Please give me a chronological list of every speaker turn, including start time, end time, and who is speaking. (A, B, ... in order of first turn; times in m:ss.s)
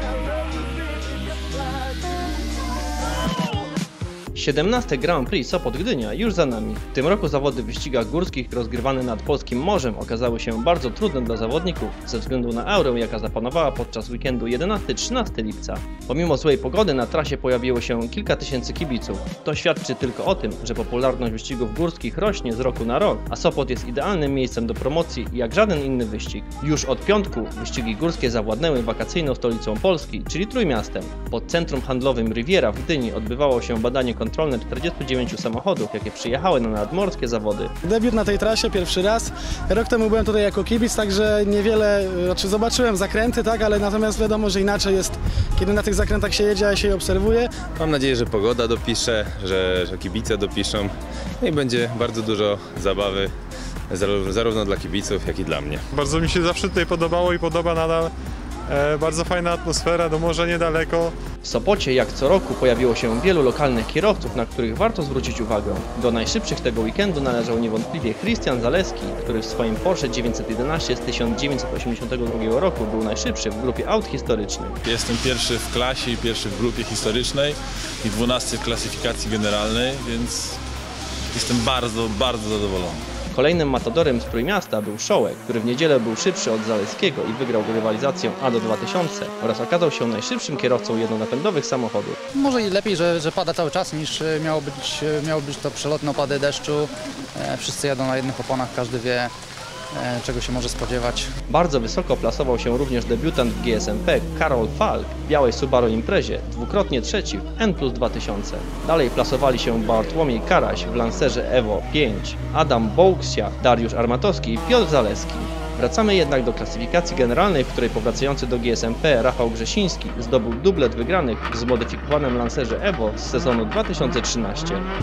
0:04.3-0:37.7 A
0:37.8-0:47.5 B
0:47.8-0:53.3 C
0:53.9-0:55.8 C
0:55.9-0:58.1 D
0:58.7-1:01.2 D
1:01.4-1:14.8 A
1:14.8-1:20.6 E
1:21.3-1:23.0 E
1:23.3-1:32.2 A
1:32.4-1:36.8 F
1:37.5-1:39.2 F
1:40.1-1:41.1 F
1:41.5-2:04.8 A